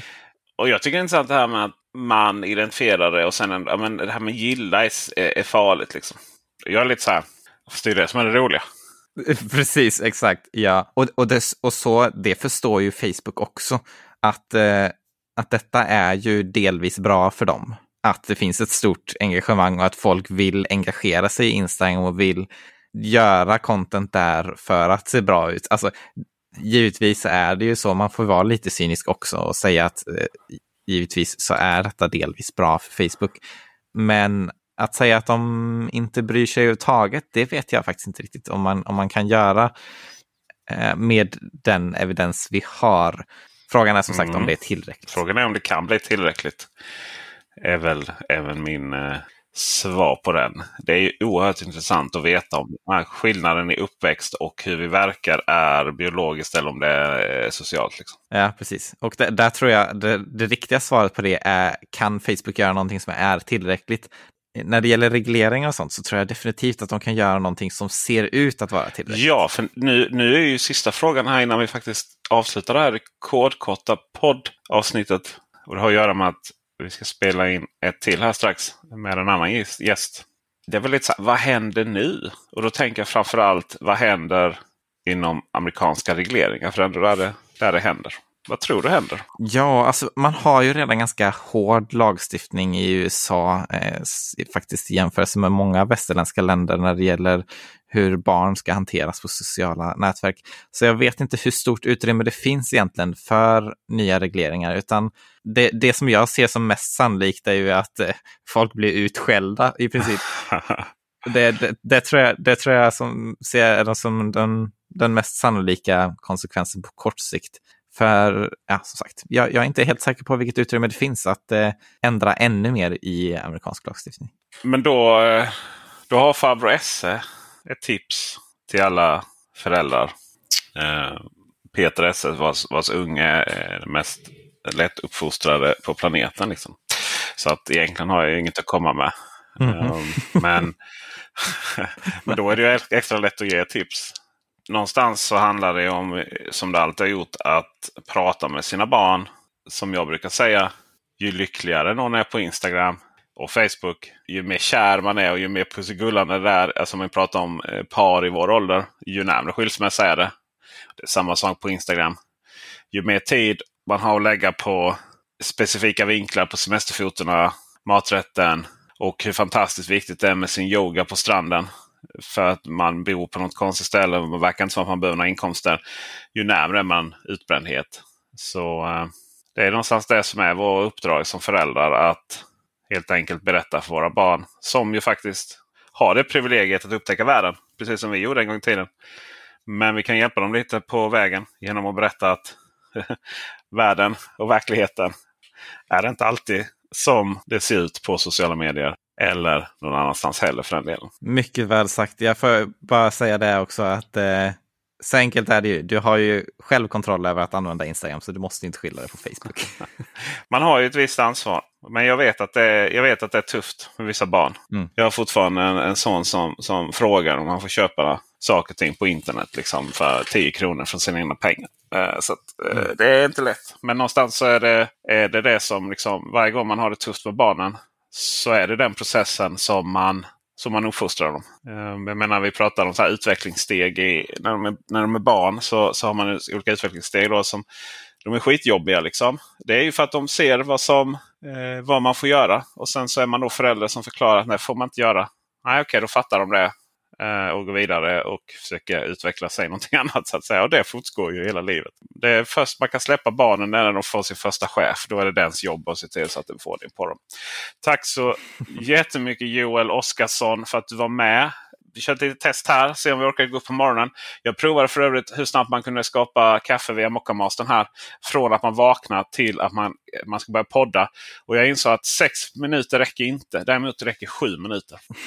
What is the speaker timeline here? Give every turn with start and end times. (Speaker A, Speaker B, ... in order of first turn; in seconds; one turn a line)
Speaker A: 0.6-8.6
Speaker B: 9.2-25.9
Speaker B: 26.6-33.4
Speaker B: 34.0-39.7
Speaker B: 40.7-45.2
Speaker A: 44.1-44.5
Speaker A: 45.1-46.7
Speaker A: 47.6-58.2
Speaker B: 58.3-69.4
Speaker A: 69.1-89.2
Speaker B: 89.4-110.3
Speaker A: 110.5-110.9
Speaker B: 111.2-124.3
Speaker A: 124.6-125.5
Speaker A: 126.1-130.1
Speaker A: 130.8-140.8
Speaker B: 139.6-140.7
Speaker A: 141.4-144.2
Speaker A: 144.7-160.3
Speaker A: 161.0-162.2
Speaker A: 162.9-171.7
Speaker A: 172.2-175.8
Speaker A: 176.3-188.9
Speaker A: 189.7-195.1
Speaker A: 195.9-201.1
Speaker B: 201.2-209.8
Speaker A: 210.5-237.7
Speaker A: 238.2-257.2
Speaker A: 257.8-275.0